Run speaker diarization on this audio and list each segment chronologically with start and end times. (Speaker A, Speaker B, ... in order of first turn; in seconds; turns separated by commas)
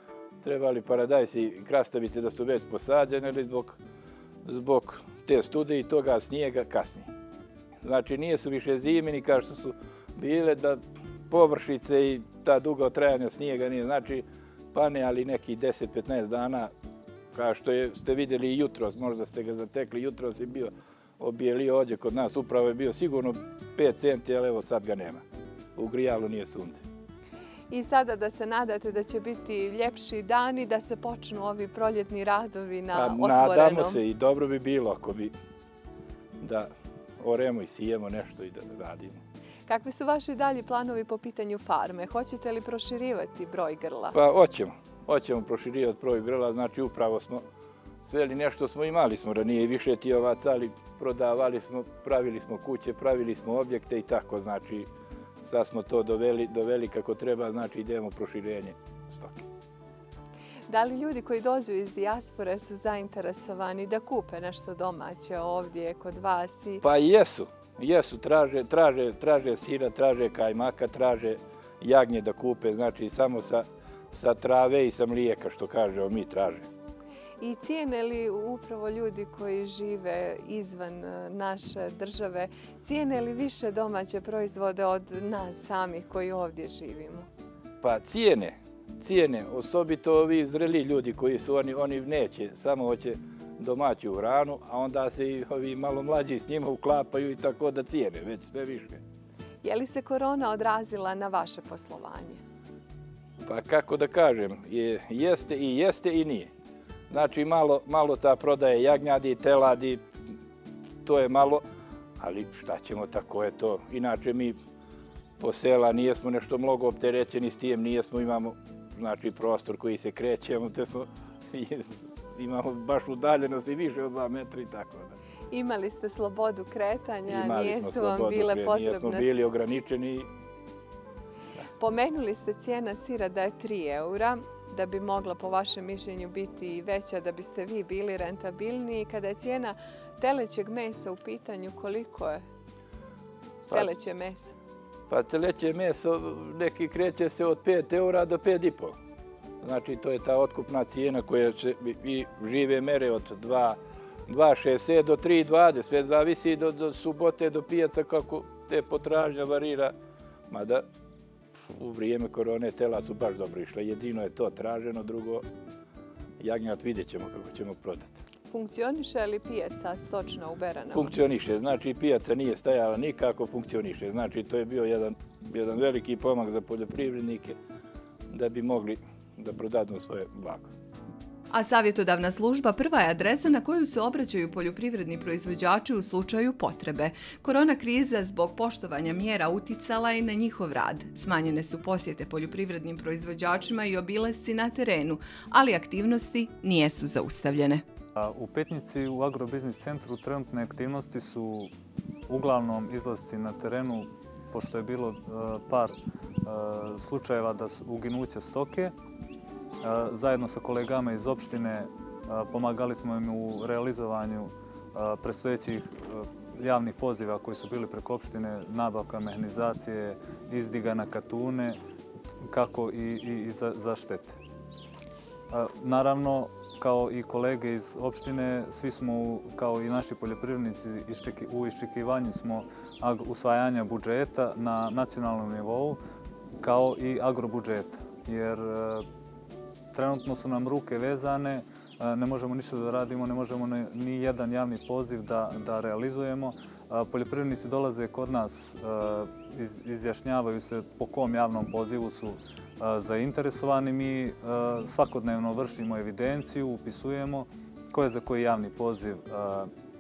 Speaker A: 0.4-3.8, Speaker A: 4.5-7.1, Speaker A: 7.8-16.7, Speaker A: 17.3-25.2, Speaker A: 25.8-26.9, Speaker B: 27.7-34.0, Speaker A: 32.9-35.3, Speaker A: 36.4-36.7, Speaker A: 37.2-39.2, Speaker B: 39.7-44.2, Speaker A: 44.1-47.4, Speaker A: 48.1-54.9, Speaker A: 55.5-59.5, Speaker B: 60.7-66.8, Speaker A: 66.8-76.7, Speaker B: 77.4-87.3, Speaker A: 87.8-99.0, Speaker B: 99.6-102.4, Speaker A: 103.5-106.5, Speaker A: 107.1-110.0, Speaker A: 111.0-111.6, Speaker A: 112.2-114.6, Speaker A: 115.4-125.2, Speaker B: 125.5-129.3, Speaker A: 127.3-130.3, Speaker B: 131.8-142.4, Speaker B: 143.7-144.6, Speaker A: 145.1-149.0, Speaker A: 149.6-159.9, Speaker A: 160.5-160.9, Speaker A: 161.7-165.5, Speaker A: 166.4-168.2, Speaker B: 168.5-171.1, Speaker A: 170.9-177.6, Speaker A: 178.3-180.7, Speaker B: 181.5-197.8, Speaker C: 198.2-201.7, Speaker C: 202.3-208.9, Speaker C: 209.8-221.8, Speaker C: 222.4-224.4, Speaker C: 225.5-236.0, Speaker C: 236.6-239.0, Speaker C: 239.9-259.7